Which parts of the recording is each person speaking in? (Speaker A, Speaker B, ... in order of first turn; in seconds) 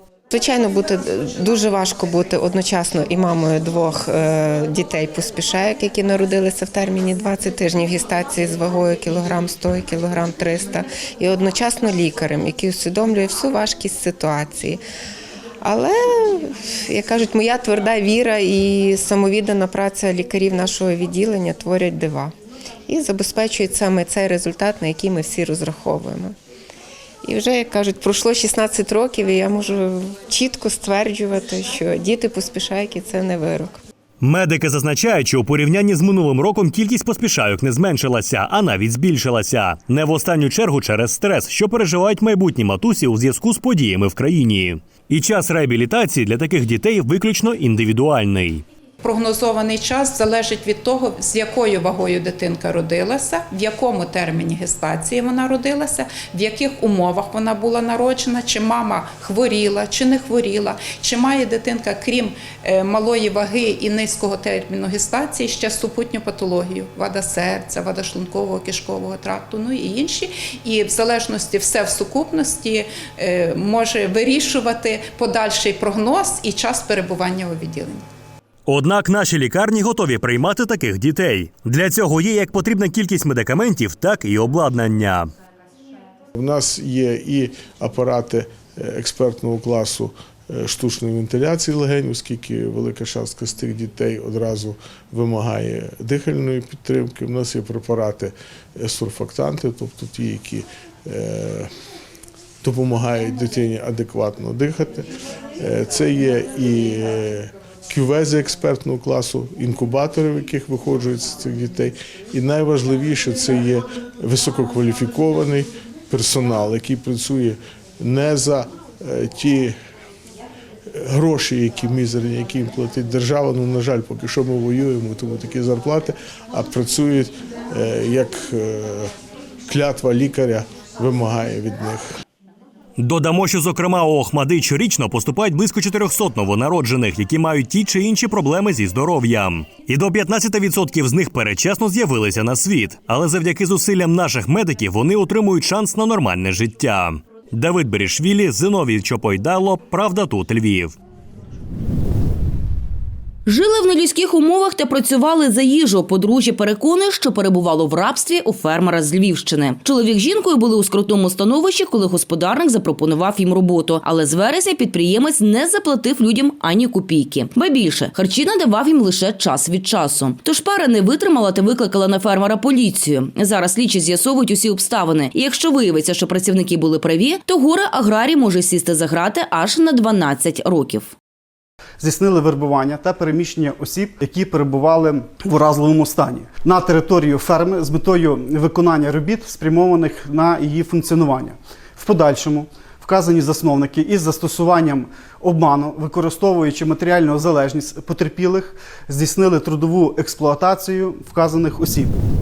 Speaker A: 0.3-14.8, 15.6-22.3, 22.9-26.4, 27.2-33.8
Speaker B: 34.2-48.6, 78.7-85.3, 133.0-150.9
Speaker C: 49.0-78.0
Speaker D: 86.3-101.7, 102.6-105.1, 105.6-119.8, 120.9-129.1, 129.7-132.1
Speaker E: 153.5-181.1
Speaker F: 182.0-202.2